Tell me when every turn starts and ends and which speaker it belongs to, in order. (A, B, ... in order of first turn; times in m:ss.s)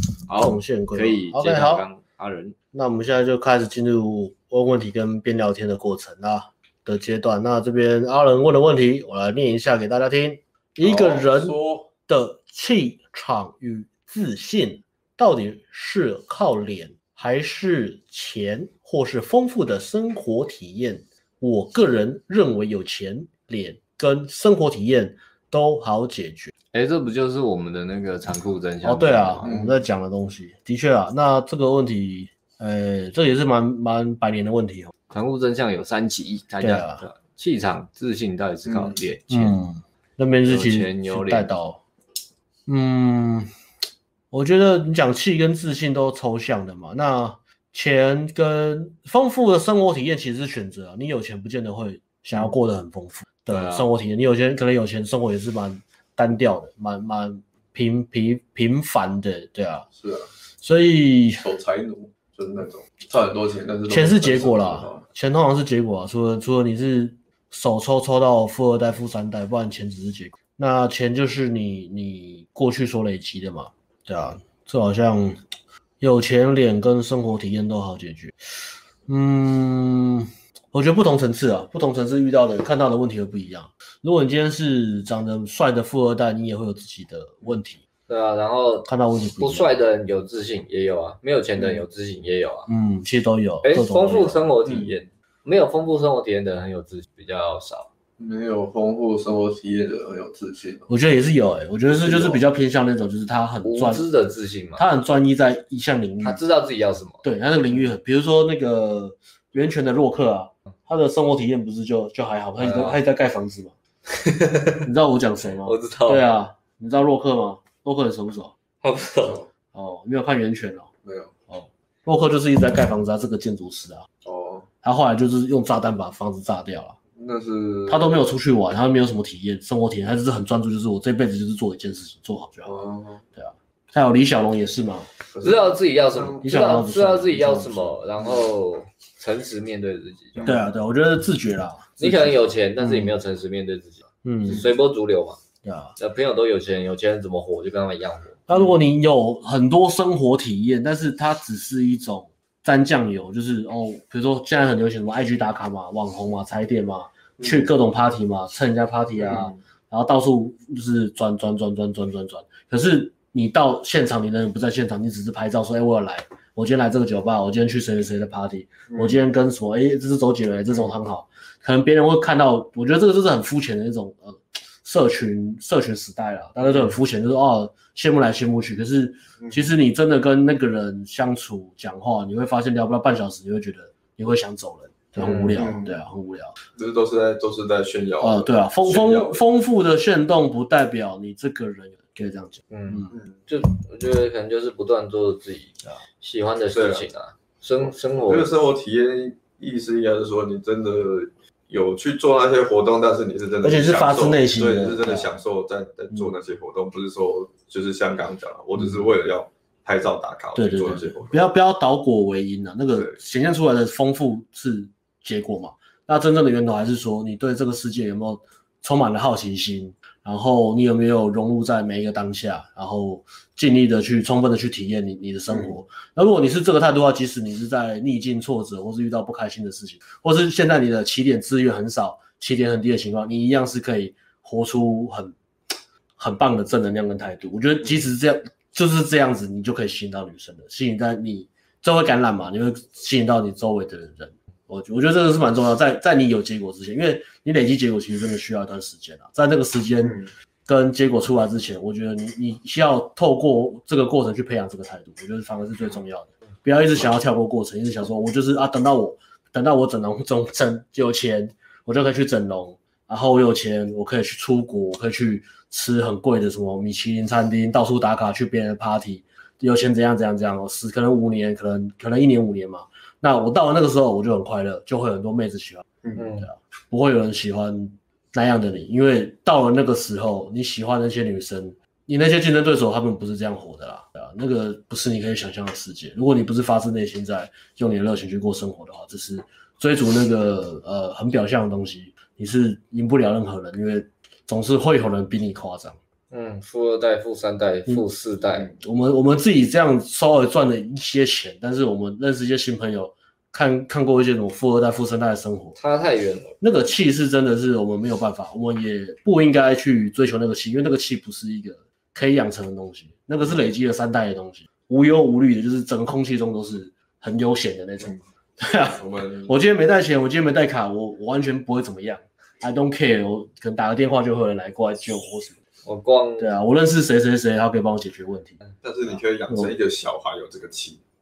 0:00.3-0:02.6 A
0:00.4-0:01.9 B
0:02.7-0:26.5 B
0:10.8-0:11.9 C
0:26.7-0:29.5 A
0:28.8-0:34.9 B
0:29.4-0:29.7 C
0:35.1-0:39.6 A
0:36.6-0:37.0 B
0:38.7-0:38.9 C
0:39.3-0:41.8 B
0:40.4-0:41.5 A
0:42.7-0:43.5 B
0:44.3-0:59.9 B
0:53.5-0:53.8 A
0:59.9-1:00.3 C
1:00.6-1:01.4 B
1:01.4-1:05.0 C
1:03.9-1:15.4 B
1:16.0-1:18.5 B
1:19.1-1:27.8 B
1:28.1-1:28.9 A
1:28.8-1:29.7 B
1:29.4-1:32.7 A
1:32.7-1:34.5 B
1:33.6-1:37.9 A
1:34.6-1:34.9 C
1:38.2-1:40.9 C
1:40.9-1:44.0 B
1:42.0-1:42.4 C
1:43.6-1:44.8 A
1:44.8-1:46.4 B
1:46.2-1:47.2 A
1:47.2-1:53.7 B
1:52.6-1:53.0 A
1:54.1-1:54.8 A
1:54.8-1:58.5 B
1:55.6-1:56.3 A
1:58.8-1:59.4 A
1:59.7-2:00.9 B
2:01.0-2:01.3 C
2:01.5-2:04.1 B
2:04.2-2:04.7 C
2:04.8-2:07.0 B
2:07.2-2:08.2 C
2:07.9-2:12.8 B
2:12.6-2:13.2 C
2:13.4-2:15.1 B
2:15.3-2:16.4 C
2:15.4-2:20.5 A
2:16.4-2:18.0 B
2:20.4-2:20.6 C
2:20.4-2:23.1 B
2:22.0-2:25.4 A
2:24.2-2:24.6 B
2:25.6-2:25.9 B
2:26.0-2:28.4 A
2:28.5-3:06.5 B
2:39.2-2:39.6 C
2:48.9-2:49.2 C
3:05.2-3:05.9 C
3:06.8-3:09.4 C
3:08.2-3:13.1 B
3:12.7-3:18.5 A
3:13.1-3:13.4 C
3:16.7-3:17.0 C
3:18.3-3:31.4 C
3:23.6-3:25.3 B
3:28.8-3:29.0 B
3:30.6-3:55.3 B
3:56.2-4:35.8 B
4:36.2-4:36.5 A
4:36.4-4:56.0 B
4:56.3-4:58.7 A
4:58.8-5:05.8 B
5:05.8-5:06.6 A
5:06.6-5:25.6 B
5:18.9-5:19.5 C
5:25.8-5:26.5 A
5:26.4-5:28.6 B
5:28.8-5:31.0 C